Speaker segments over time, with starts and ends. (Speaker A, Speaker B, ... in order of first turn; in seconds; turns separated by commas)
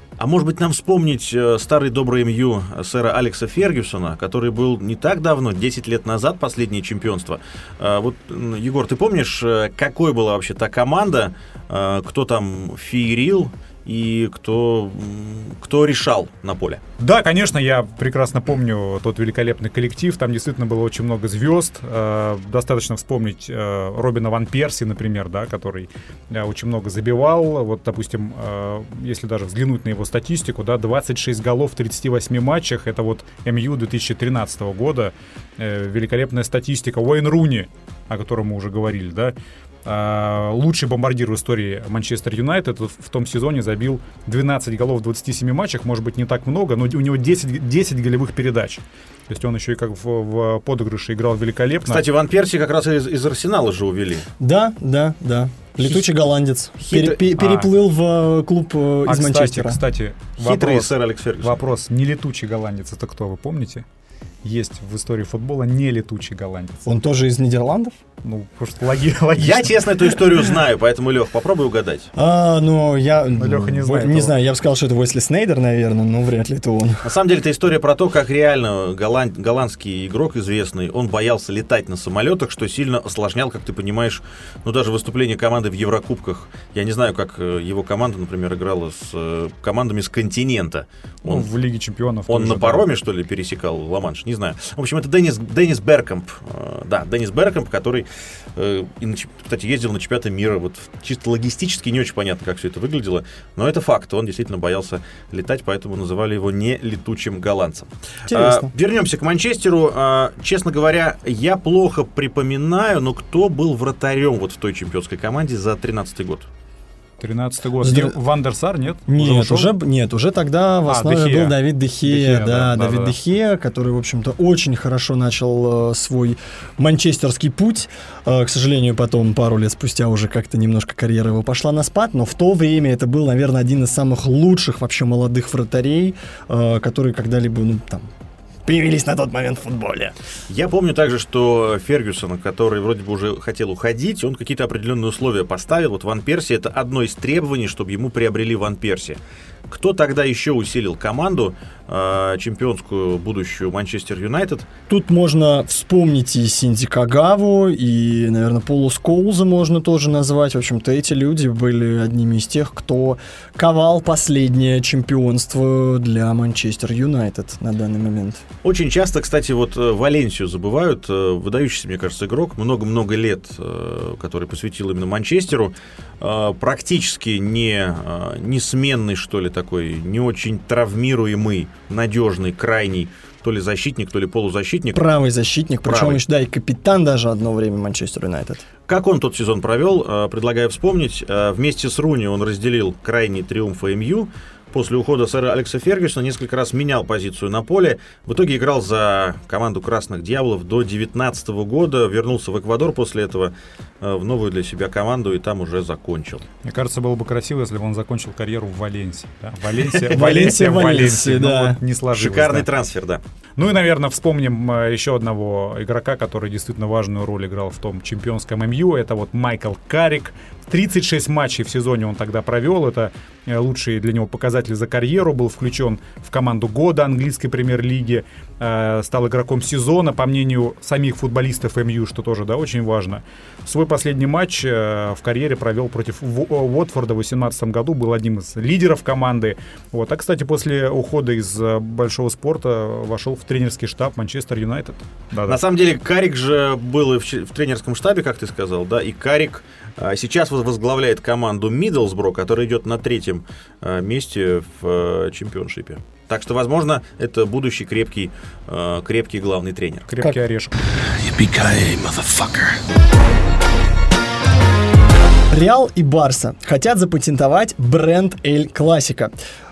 Speaker A: 0.2-16.8, Speaker B: 17.0-39.4, Speaker B: 39.9-52.0, Speaker A: 51.9-54.2, Speaker C: 54.4-59.8, Speaker B: 56.9-57.7, Speaker B: 59.1-60.9, Speaker A: 60.4-61.6, Speaker B: 61.4-63.8, Speaker B: 64.4-66.9, Speaker C: 66.9-68.0, Speaker B: 68.2-69.8, Speaker A: 69.4-72.1, Speaker C: 72.2-77.0, Speaker B: 73.4-74.3, Speaker A: 77.0-91.5, Speaker B: 91.2-92.9, Speaker A: 92.3-116.5, Speaker C: 108.3-108.7, Speaker B: 117.2-119.7, Speaker C: 117.8-118.2, Speaker C: 119.1-138.1, Speaker B: 120.9-123.2, Speaker C: 138.7-140.2, Speaker A: 140.5-154.7, Speaker C: 154.9-168.4, Speaker A: 168.6-185.0, Speaker C: 184.9-188.6, Speaker A: 185.9-186.2, Speaker A: 188.9-206.4, Speaker B: 206.6-212.7, Speaker A: 209.9-210.2, Speaker C: 210.1-211.8, Speaker A: 212.1-213.2, Speaker B: 213.6-245.6, Speaker A: 245.5-260.1, Speaker B: 260.1-260.8, Speaker A: 261.1-262.8, Speaker C: 265.5-269.3